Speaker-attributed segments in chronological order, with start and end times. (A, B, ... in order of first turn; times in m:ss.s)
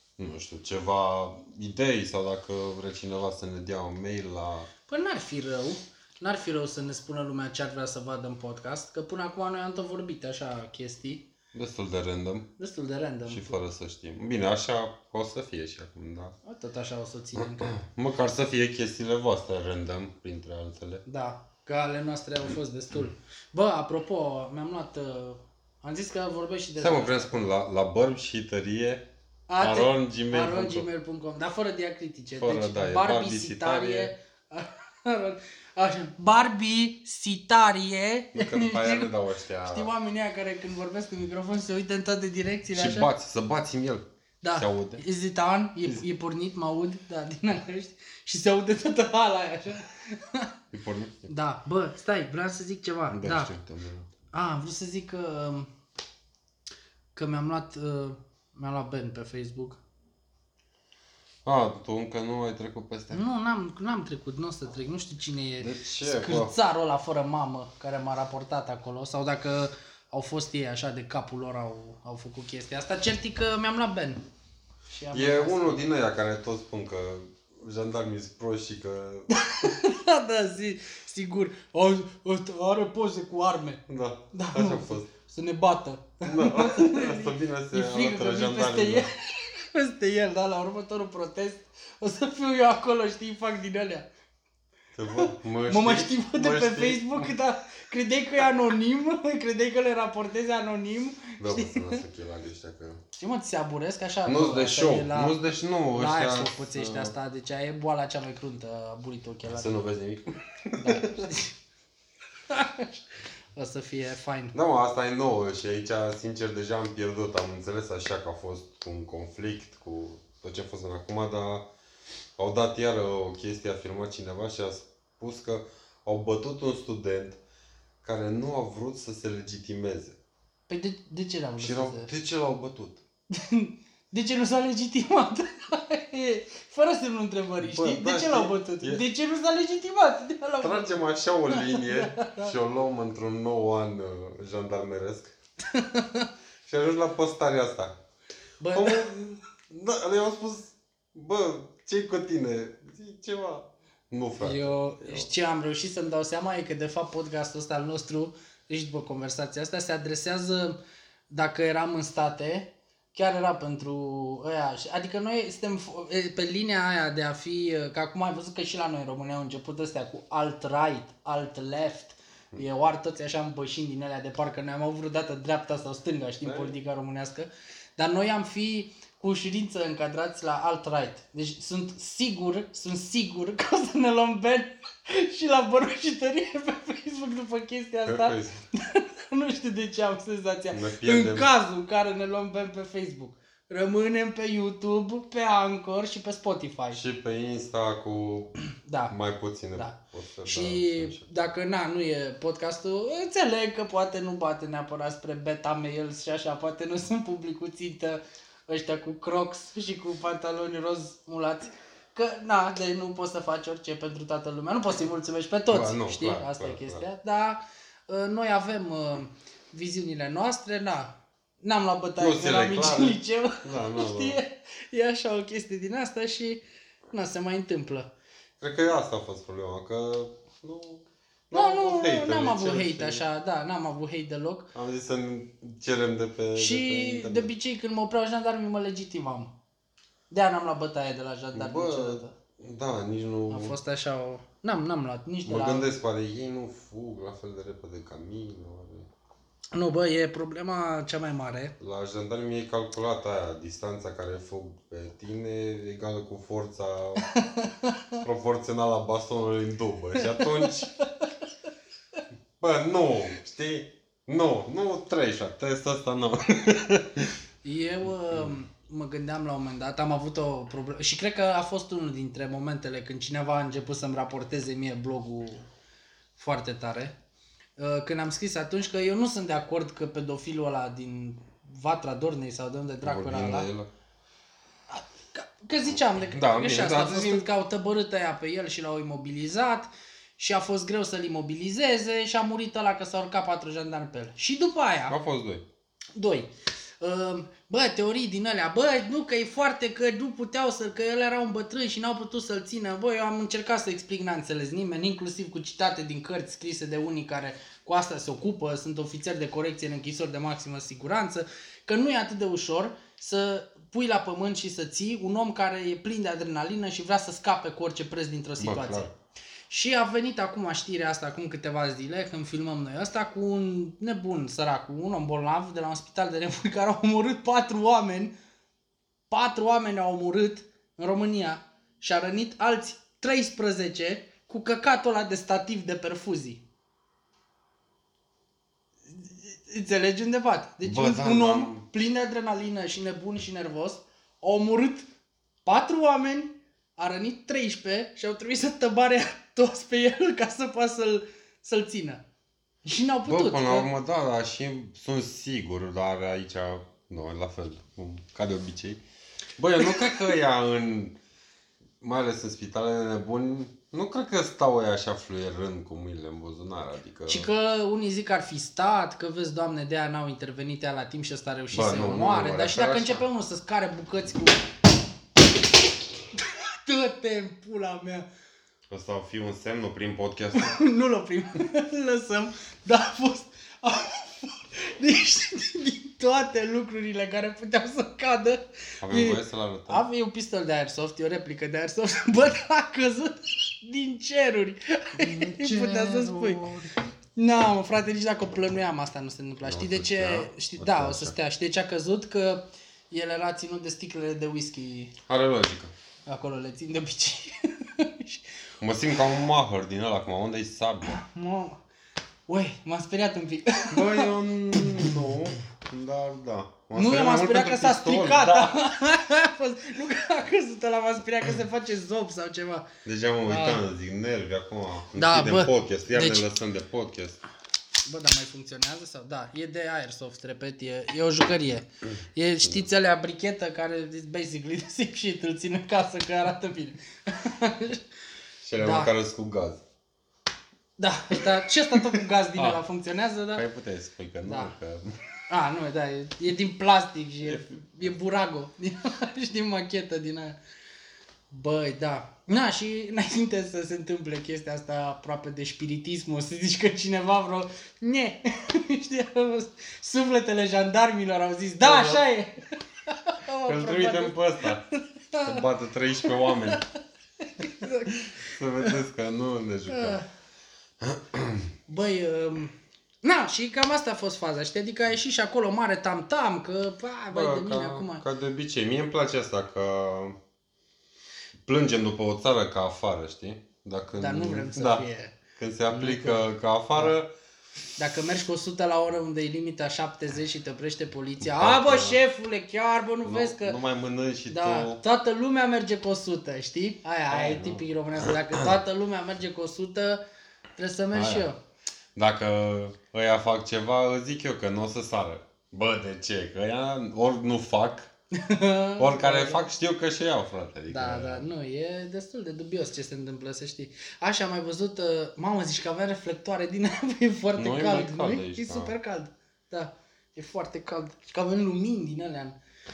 0:00.2-0:04.7 A
0:04.9-0:11.3 B
0:11.5-0:12.5 A
0:12.6-0:13.5 B
0:13.2-0:16.4 A
0:16.4-0:17.8 B
0:17.4-0:21.0 A
0:21.0-0:27.3 B
0:26.8-0:29.1 A
0:29.5-0:39.1 B
0:29.6-0:30.8 A
0:32.4-0:34.1 A
0:38.3-0:39.9 A
0:39.6-0:43.1 B
0:42.7-0:45.0 A
0:44.4-0:50.5 B
0:50.7-0:51.3 A
0:51.3-0:53.6 B
0:53.1-0:54.1 A
0:54.3-0:55.7 B
0:57.1-0:59.8 B
1:01.4-1:03.2 A
1:03.1-1:14.2 B
1:05.6-1:06.5 A
1:14.9-1:15.8 B
1:15.1-1:19.7 A
1:19.3-1:23.8 B
1:23.9-1:25.1 A
1:24.3-1:34.1 B
1:26.2-1:29.1 A
1:34.9-1:37.3 A
1:35.2-1:42.0 B
1:41.4-1:43.0 A
1:43.2-1:45.4 B
1:44.2-1:47.1 A
1:45.9-1:49.7 B
1:49.5-1:51.3 A
1:50.8-1:51.5 B
1:52.5-1:53.0 B
1:53.5-1:54.5 B
1:54.5-2:01.7 A
2:02.4-2:07.4 A
2:08.0-2:10.2 A
2:10.7-2:12.1 B
2:11.6-2:13.0 A
2:13.3-2:20.9 B
2:17.6-2:19.0 A
2:20.6-2:25.3 A
2:21.5-2:22.5 B
2:25.7-2:26.3 B
2:26.7-2:28.0 A
2:28.6-2:29.1 B
2:28.7-2:35.3 A
2:34.4-2:40.8 B
2:41.3-3:17.0 B
2:56.4-2:56.7 A
3:08.0-3:08.6 A
3:10.7-3:11.5 A
3:16.9-3:18.6 A
3:18.8-3:19.1 B
3:19.1-3:21.3 A
3:19.7-3:48.1 B
3:35.7-3:37.0 A
3:42.2-3:44.4 A
3:48.6-3:53.2 A
3:51.5-3:54.7 B
3:54.7-3:57.5 A
3:56.5-3:59.5 B
4:00.3-4:02.3 B
4:01.5-4:03.8 A
4:03.5-4:05.9 B
4:05.4-4:09.1 A
4:09.7-4:11.7 B
4:11.8-4:17.3 A
4:17.2-4:18.2 B
4:18.2-4:20.9 A
4:20.2-4:21.2 B
4:22.6-4:27.3 A
4:27.6-4:35.6 B
4:36.4-4:37.2 B
4:37.8-4:43.7 B
4:43.0-4:43.9 A
4:44.9-4:55.2 B
4:46.2-4:47.5 A
4:55.1-4:55.6 A
4:56.1-4:56.5 B
4:57.0-5:19.1 B
5:18.6-5:19.1 A
5:19.7-5:28.3 B
5:29.3-5:36.6 B
5:39.1-5:45.1 B
5:40.8-5:41.8 A
5:45.6-5:52.2 B
5:52.8-5:53.9 B
5:53.2-5:59.0 A
5:59.6-6:01.2 A
6:02.0-6:07.5 A
6:07.3-6:14.6 B
6:11.7-6:13.2 A
6:16.3-6:18.2 B
6:18.9-6:20.7 A
6:20.5-6:36.6 B
6:29.0-6:30.0 A
6:35.2-6:36.9 A
6:37.4-6:45.1 B
6:39.6-6:41.3 A
6:45.3-6:45.9 A
6:46.2-6:48.4 B
6:48.8-6:51.2 A
6:51.1-6:51.8 B
6:52.5-6:55.2 B
6:53.9-6:58.8 A
6:56.9-7:02.9 B
7:03.0-7:07.4 A
7:03.4-7:03.8 B
7:05.1-7:06.4 B
7:08.0-7:18.0 B
7:18.6-7:19.8 A
7:18.8-7:19.1 B
7:21.0-7:23.6 B
7:22.5-7:22.8 A
7:23.5-7:25.1 A
7:24.4-7:24.7 B
7:25.5-7:30.6 B
7:27.4-7:28.0 A
7:31.5-7:45.6 B
7:41.8-7:42.2 A
7:43.6-7:44.8 A
7:45.4-7:46.8 A
7:46.3-7:46.8 B
7:47.4-7:48.9 B
7:47.8-7:50.2 A
7:49.9-7:50.2 B
7:51.0-7:51.7 A
7:51.9-7:58.2 B
7:57.3-8:00.4 A
8:01.6-8:07.3 A
8:04.2-8:05.4 B
8:05.9-8:07.1 B
8:08.0-8:13.8 B
8:11.4-8:12.2 A
8:13.2-8:15.0 A
8:14.5-8:20.2 B
8:17.3-8:18.7 A
8:20.8-8:21.6 B
8:21.1-8:21.5 A
8:22.2-8:28.1 A
8:28.3-8:29.7 B
8:29.0-8:31.5 A
8:30.9-8:42.6 B
8:37.6-8:38.9 A